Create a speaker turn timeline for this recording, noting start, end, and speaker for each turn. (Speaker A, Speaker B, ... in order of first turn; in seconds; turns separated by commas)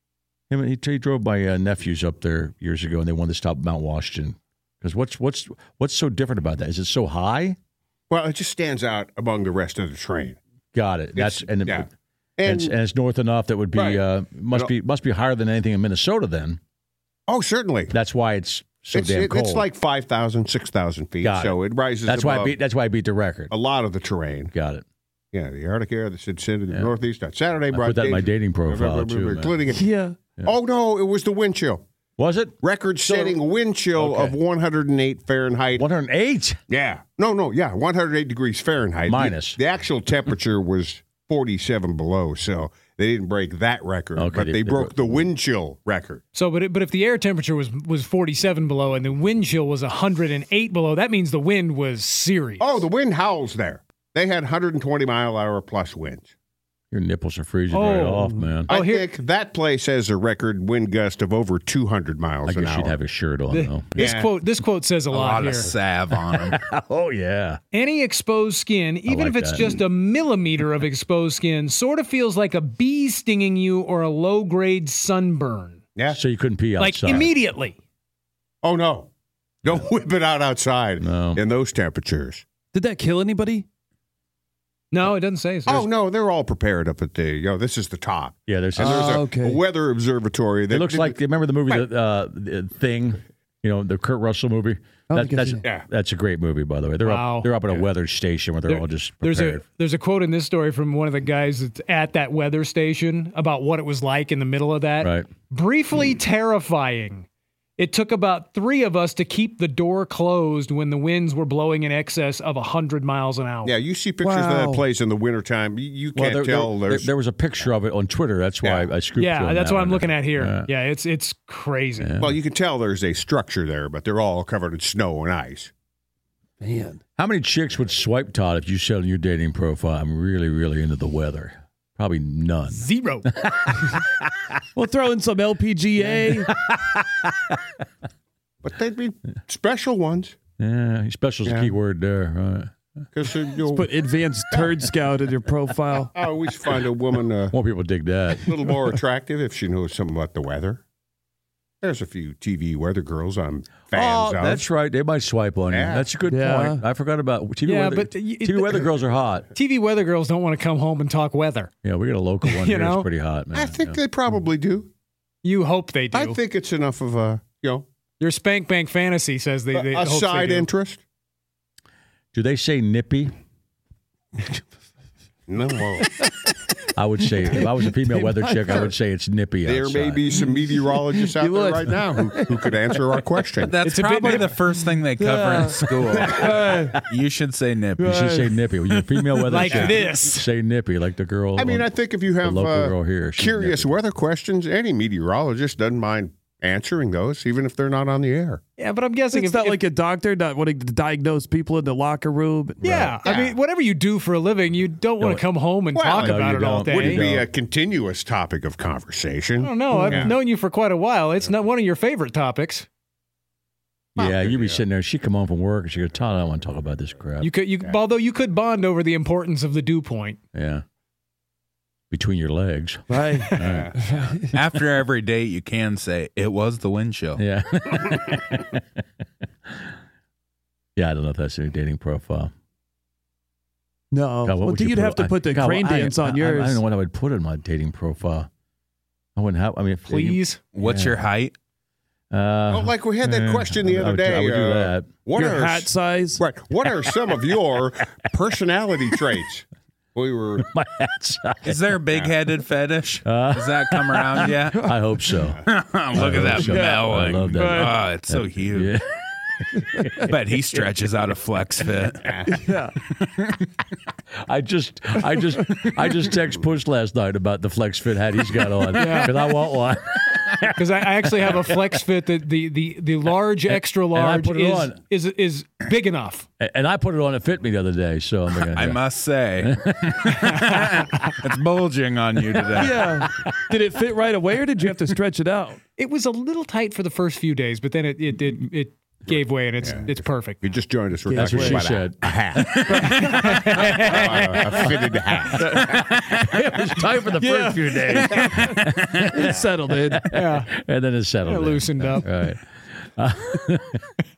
Speaker A: 0.5-7.6, Speaker B: 8.1-10.4, Speaker A: 10.7-11.9, Speaker B: 11.2-12.7, Speaker A: 12.4-16.6, Speaker B: 13.8-14.7, Speaker B: 17.3-17.9, Speaker A: 17.9-19.7, Speaker B: 18.9-22.6, Speaker A: 21.2-23.5, Speaker B: 23.5-24.5, Speaker A: 24.5-24.9, Speaker B: 25.3-29.9, Speaker A: 27.7-29.6, Speaker C: 29.7-30.2, Speaker B: 30.4-31.9, Speaker A: 32.2-33.4, Speaker B: 32.6-35.9, Speaker A: 34.0-34.4, Speaker A: 35.8-36.6, Speaker B: 36.7-46.2, Speaker A: 39.1-39.6, Speaker A: 44.2-45.3, Speaker D: 46.4-52.8, Speaker B: 52.6-56.3, Speaker A: 56.9-58.7, Speaker D: 57.7-59.1, Speaker B: 58.7-62.9, Speaker A: 62.5-64.1, Speaker D: 63.5-65.7, Speaker B: 64.0-64.3, Speaker E: 65.1-66.6, Speaker A: 66.3-67.6, Speaker D: 67.7-75.8, Speaker A: 69.1-69.8, Speaker B: 76.0-76.2, Speaker A: 76.1-77.3, Speaker D: 76.8-77.8, Speaker B: 78.6-79.1, Speaker B: 79.7-82.5, Speaker A: 81.0-81.4, Speaker C: 82.7-83.7, Speaker D: 84.9-85.9, Speaker B: 85.7-91.8, Speaker A: 88.5-89.2, Speaker C: 88.8-89.6, Speaker A: 90.7-99.6, Speaker C: 95.1-95.6, Speaker D: 97.0-97.5, Speaker D: 98.7-107.3, Speaker A: 105.0-105.3, Speaker D: 107.8-113.8, Speaker B: 113.6-117.1, Speaker C: 114.2-114.8, Speaker A: 116.2-120.7, Speaker B: 118.6-118.9, Speaker D: 119.2-122.2, Speaker A: 122.0-122.4, Speaker B: 122.2-125.7, Speaker C: 126.6-127.0, Speaker A: 127.2-134.1, Speaker D: 132.7-133.3, Speaker C: 134.8-136.5, Speaker A: 136.5-137.6, Speaker B: 138.6-140.4, Speaker A: 140.6-142.7, Speaker B: 141.4-141.7, Speaker B: 143.1-143.9, Speaker C: 143.7-146.1, Speaker B: 146.2-147.6, Speaker A: 147.5-148.7, Speaker B: 148.4-150.8, Speaker B: 151.8-154.7, Speaker A: 153.9-159.5, Speaker B: 155.7-156.1, Speaker C: 156.2-156.8, Speaker D: 157.7-159.0, Speaker D: 159.5-161.7, Speaker A: 161.8-164.0, Speaker D: 162.4-163.1, Speaker B: 163.5-164.9, Speaker D: 165.4-166.4, Speaker B: 166.1-167.9, Speaker D: 168.2-170.7, Speaker B: 169.7-171.0, Speaker A: 172.3-173.3, Speaker B: 175.5-176.2, Speaker A: 176.9-180.2, Speaker C: 177.6-178.9, Speaker B: 179.7-183.7, Speaker C: 181.2-182.7, Speaker E: 183.6-188.2, Speaker D: 183.8-184.5, Speaker C: 185.2-187.0, Speaker C: 188.0-188.6, Speaker A: 188.0-193.9, Speaker D: 189.5-190.4, Speaker B: 191.6-198.6, Speaker D: 198.8-199.8, Speaker C: 199.3-203.1, Speaker D: 202.8-207.3, Speaker B: 203.2-203.6, Speaker B: 205.9-210.3, Speaker A: 206.2-207.5, Speaker D: 209.6-212.9, Speaker C: 209.9-210.3, Speaker A: 214.2-217.5, Speaker B: 214.2-214.8, Speaker D: 217.4-220.4, Speaker A: 220.5-220.8, Speaker A: 222.1-224.0, Speaker C: 223.1-224.5, Speaker B: 223.6-223.9, Speaker E: 224.5-227.4, Speaker A: 227.4-228.8, Speaker A: 229.7-229.9, Speaker A: 231.0-232.5, Speaker C: 234.1-236.8, Speaker A: 234.4-238.5, Speaker A: 239.4-241.2, Speaker D: 240.1-240.6, Speaker E: 240.8-241.5, Speaker A: 242.3-245.1, Speaker B: 242.7-250.7, Speaker C: 245.3-246.4, Speaker A: 250.6-251.9, Speaker E: 251.6-254.9, Speaker A: 253.2-260.8, Speaker E: 255.7-258.9, Speaker C: 256.6-257.9, Speaker E: 260.3-262.3, Speaker B: 262.3-262.5, Speaker C: 262.5-262.9, Speaker A: 264.4-271.8, Speaker C: 268.9-269.4, Speaker D: 269.0-269.3, Speaker D: 270.8-276.5, Speaker A: 273.7-275.0, Speaker A: 276.6-279.0, Speaker E: 278.7-283.2, Speaker A: 279.6-281.0, Speaker A: 282.6-282.9, Speaker C: 282.8-285.8, Speaker D: 286.0-290.6, Speaker B: 289.8-293.1, Speaker C: 291.3-291.9, Speaker A: 291.3-293.0, Speaker D: 293.3-294.2, Speaker B: 293.9-295.8, Speaker A: 294.1-294.9, Speaker A: 295.6-304.0, Speaker E: 295.9-296.2, Speaker C: 297.4-300.3, Speaker D: 300.3-300.7, Speaker D: 301.4-302.3